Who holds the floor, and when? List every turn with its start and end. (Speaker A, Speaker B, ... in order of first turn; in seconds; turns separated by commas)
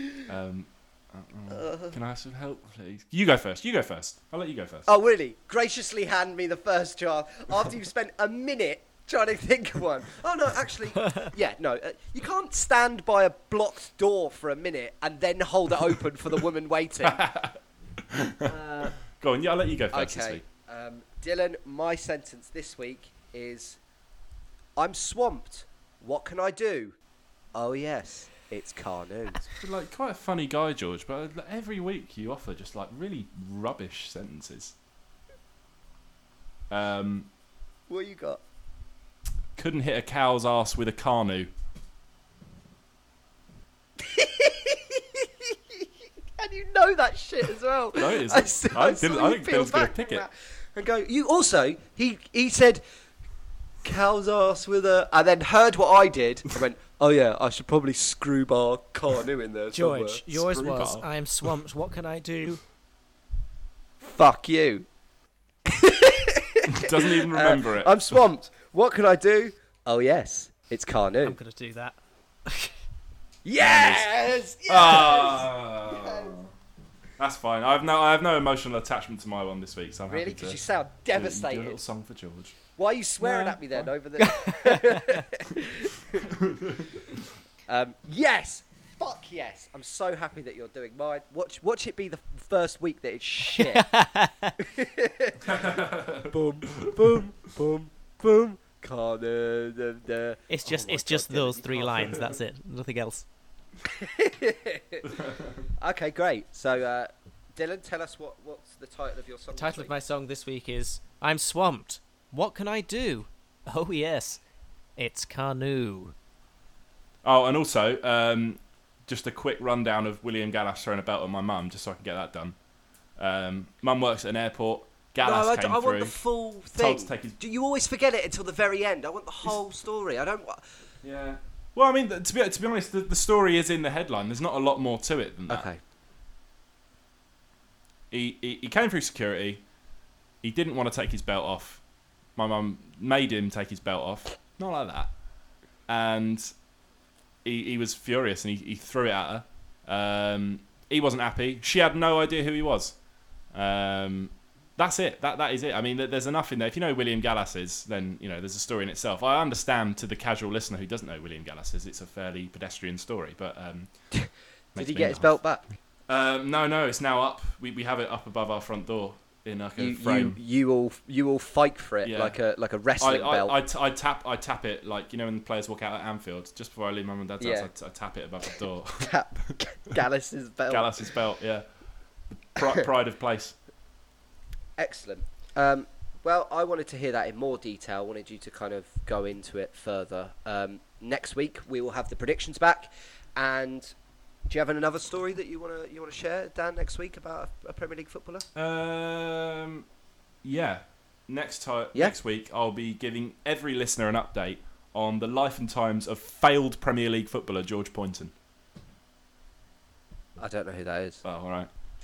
Speaker A: 0.3-4.9, Speaker B: 1.5-2.0, Speaker B: 4.9-17.2, Speaker A: 17.0-17.6, Speaker A: 18.1-18.5, Speaker B: 18.4-19.0, Speaker A: 19.1-20.4, Speaker B: 19.9-23.8, Speaker B: 24.8-27.0, Speaker B: 27.5-29.5, Speaker A: 29.5-34.8, Speaker A: 36.7-37.3, Speaker B: 37.9-38.4, Speaker A: 39.6-41.5, Speaker B: 44.0-45.9, Speaker B: 46.4-52.8, Speaker A: 48.0-50.3, Speaker B: 53.8-60.2, Speaker C: 59.7-62.6, Speaker A: 60.3-61.1, Speaker B: 64.0-64.9, Speaker B: 65.7-71.4, Speaker A: 66.7-68.0, Speaker C: 71.2-72.0, Speaker B: 73.5-76.3, Speaker A: 73.6-74.1, Speaker A: 74.7-76.5, Speaker A: 77.2-82.6, Speaker B: 80.1-81.8, Speaker B: 82.8-86.4, Speaker A: 83.3-83.9, Speaker C: 84.2-85.1, Speaker B: 87.7-94.0, Speaker C: 93.6-94.5, Speaker B: 94.6-102.2, Speaker A: 95.5-96.9, Speaker C: 100.5-103.3, Speaker B: 103.8-109.9, Speaker C: 109.5-114.4, Speaker C: 115.0-116.1, Speaker A: 117.2-122.6, Speaker A: 123.2-126.2, Speaker B: 125.2-130.6, Speaker A: 126.8-127.4, Speaker A: 131.0-135.7, Speaker B: 135.5-135.8, Speaker A: 138.1-139.6, Speaker A: 140.4-141.8, Speaker A: 142.3-145.2, Speaker A: 145.9-146.5, Speaker A: 147.4-153.0, Speaker A: 153.5-164.2, Speaker B: 164.2-165.7, Speaker A: 164.8-165.5, Speaker A: 166.1-170.4, Speaker B: 169.8-173.6, Speaker A: 172.0-172.4, Speaker A: 173.0-179.6, Speaker B: 177.4-177.7, Speaker B: 179.0-181.1, Speaker A: 180.7-181.7, Speaker A: 182.3-183.6, Speaker B: 184.8-193.9, Speaker B: 194.5-198.5, Speaker A: 198.6-199.9, Speaker A: 200.4-208.3, Speaker B: 210.4-211.2, Speaker A: 211.2-211.7